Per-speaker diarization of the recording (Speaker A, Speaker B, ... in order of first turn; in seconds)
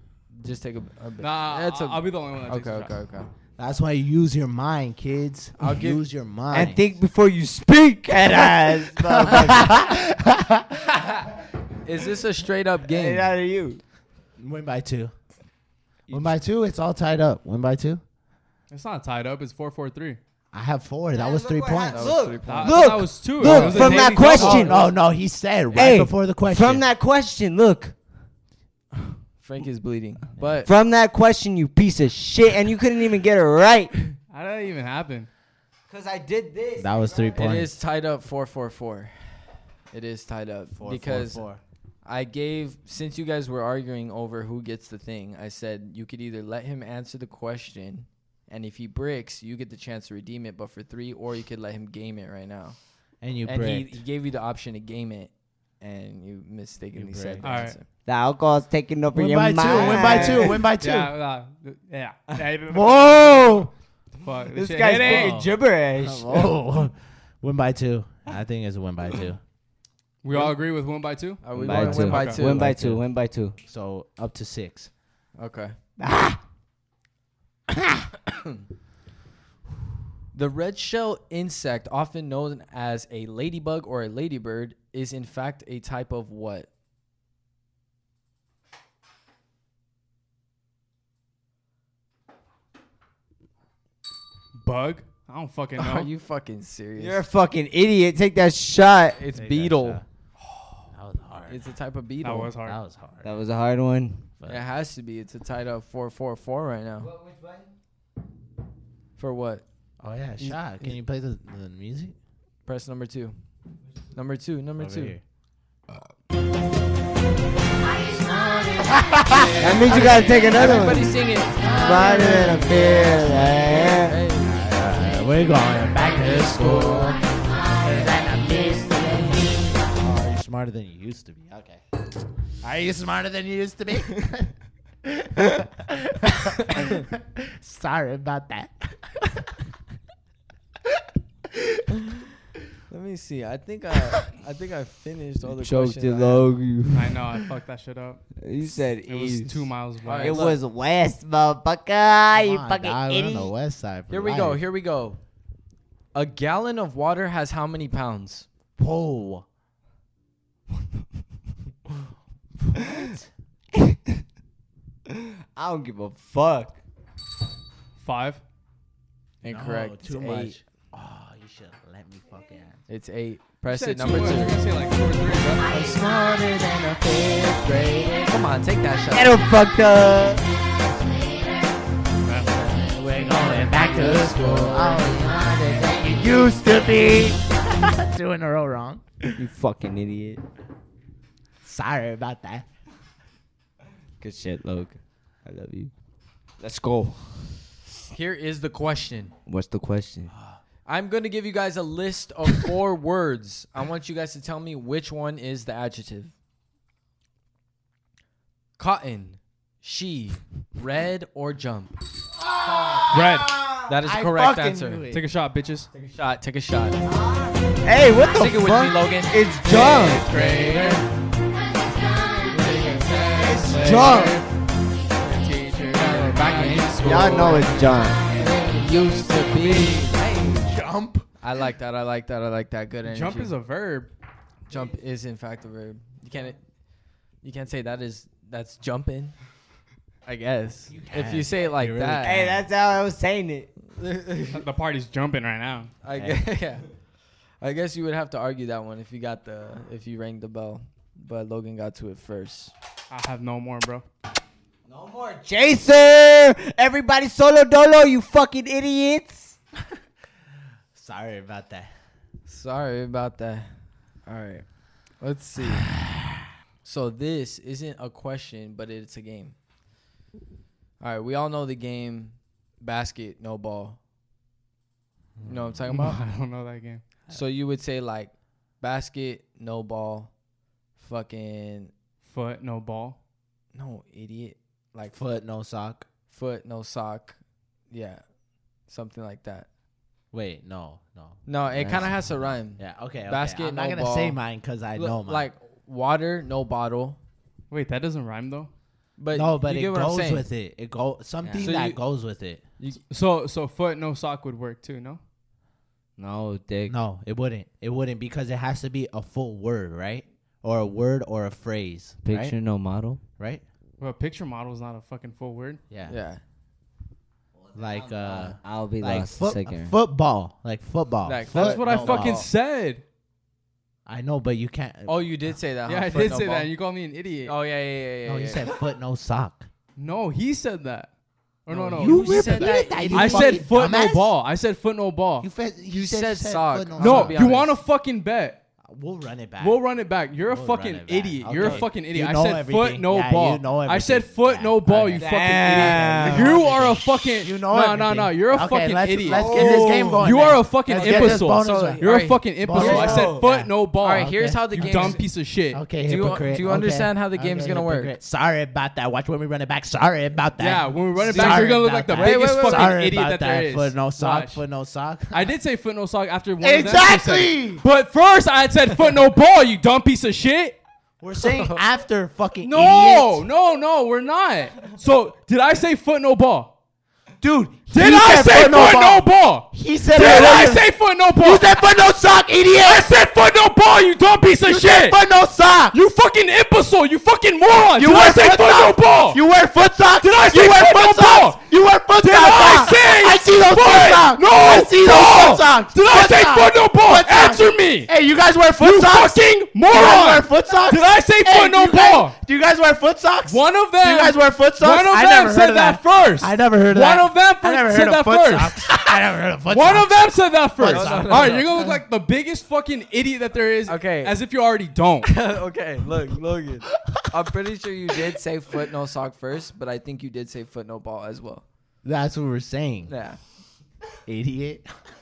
Speaker A: 0.3-3.3, 5.6-6.0, 11.0-11.3, 11.8-13.3, 21.9-22.9, 23.5-24.9, 29.4-30.7, 37.4-39.1, 39.9-41.5, 42.0-52.8, 53.5-57.9, 59.7-60.4, 71.4-72.8, 75.4-75.8, 78.3-78.6, 80.3-86.7, 95.8-97.2, 99.2-100.0, 101.5-102.5, 104.5-107.1, 109.2-109.6, 112.7-113.3, 114.1-115.2, 118.2-125.4, 126.0-127.2, 142.9-146.5, 150.0-150.6, 154.1-155.2, 156.1-158.5, 169.4-170.6, 172.9-174.6, 175.7-179.4, 180.9-181.3, 182.5-185.0, 198.1-199.3, 200.8-206.3, 208.8-211.9, 213.9-215.0, 216.1-217.0, 218.3-221.1, 222.5-224.3, 225.9-230.7, 231.4-233.5, 234.7-236.6, 237.4-239.3, 240.3-242.4, 243.9-244.7, 246.0-246.9, 247.6-252.7, 262.5-263.7, 264.3-264.6, 265.2-265.9, 266.8-269.6, 271.0-274.0, 275.4-276.2, 277.3-280.3, 281.0-281.9, 283.7-285.1, 286.3-287.4, 287.9-288.2, 288.9-289.7, 291.5-294.4, 294.9-297.2, 299.2-300.5, 301.6-302.0, 316.1-316.4, 321.3-322.5, 325.1-326.7, 327.5-328.7, 331.7-333.6, 335.9-337.8, 341.6-341.9, 350.9-353.3, 354.0-355.2, 356.0-358.2, 361.2-363.0, 371.4-371.8, 410.9-411.9, 413.9-414.4, 415.2-421.6, 423.1-423.4
Speaker B: 1.2-2.9, 18.7-20.2, 22.5-24.8, 34.3-35.3, 57.4-57.8, 60.8-63.6, 64.2-65.5, 70.2-72.4, 94.6-96.1, 102.2-102.8, 146.9-148.2, 149.1-150.5, 168.0-168.4, 173.7-175.7, 213.1-213.6, 215.1-215.9, 219.8-221.0, 222.6-224.5, 225.2-230.1, 233.1-234.1, 244.5-245.9, 253.1-254.1, 275.9-277.0, 282.2-283.2, 297.7-298.7, 303.1-305.2, 314.0-315.8, 321.5-323.0, 325.9-327.6, 330.0-331.1, 331.6-335.5, 337.0-338.6, 339.6-355.8, 360.6-364.6, 365.3-370.8, 372.6-376.7, 377.9-381.8, 382.8-385.2, 385.9-389.4, 390.2-391.6, 392.2-398.1, 398.8-402.4, 403.5-409.1, 409.7-415.3
Speaker C: 3.6-6.8, 8.3-10.8, 14.4-15.1, 16.1-18.0, 20.5-22.3, 23.4-26.9, 36.8-37.7, 40.7-41.6, 53.2-54.0, 57.0-57.5, 59.1-61.1, 62.7-63.7, 65.0-69.4, 72.5-73.0, 73.7-74.9, 99.3-100.0, 100.9-101.6, 102.6-103.3, 110.0-112.2, 114.8-115.2, 118.8-121.0, 121.6-123.2, 124.4-127.2, 127.8-131.8, 132.6-134.5, 135.0-139.6, 141.0-141.8, 152.3-154.6, 158.8-159.4, 162.6-163.3, 169.5-172.8, 182.6-189.3, 191.6-192.7, 200.3-200.6, 212.7-213.4, 214.0-215.2, 223.8-224.4, 230.5-231.3, 240.9-242.7, 246.1-246.4, 260.9-261.9, 275.4-275.8, 285.1-286.1, 290.3-291.4, 292.8-295.5, 299.3-302.6, 306.9-312.6, 315.9-316.1, 317.8-322.5, 324.1-325.2, 328.3-329.7, 332.0-334.3, 335.4-337.4, 338.9-339.8, 340.5-352.1, 352.6-365.5, 366.6-367.8, 371.2-373.5, 377.4-380.9, 381.4-383.1, 384.6-386.0, 387.9-412.0, 422.0-423.1, 424.3-424.9
Speaker D: 6.5-9.8, 12.9-13.8, 16.1-16.3, 21.1-24.8, 25.7-27.9, 30.7-33.9, 35.9-37.5, 58.0-60.6, 64.5-66.6, 71.6-73.6, 76.0-76.4, 97.0-99.2, 103.2-104.3, 107.0-107.7, 119.6-124.2, 145.5-147.2, 148.4-153.5, 165.1-166.8, 179.1-180.4, 189.3-190.4, 194.2-195.9, 196.6-197.5, 199.5-200.3, 212.7-213.1, 217.1-220.3, 222.6-224.4, 227.0-228.2, 242.2-243.7, 254.9-259.6, 291.8-292.1, 301.4-301.8, 306.2-307.0, 312.2-313.2, 317.6-320.0, 345.1-346.7, 349.3-350.2, 352.8-353.5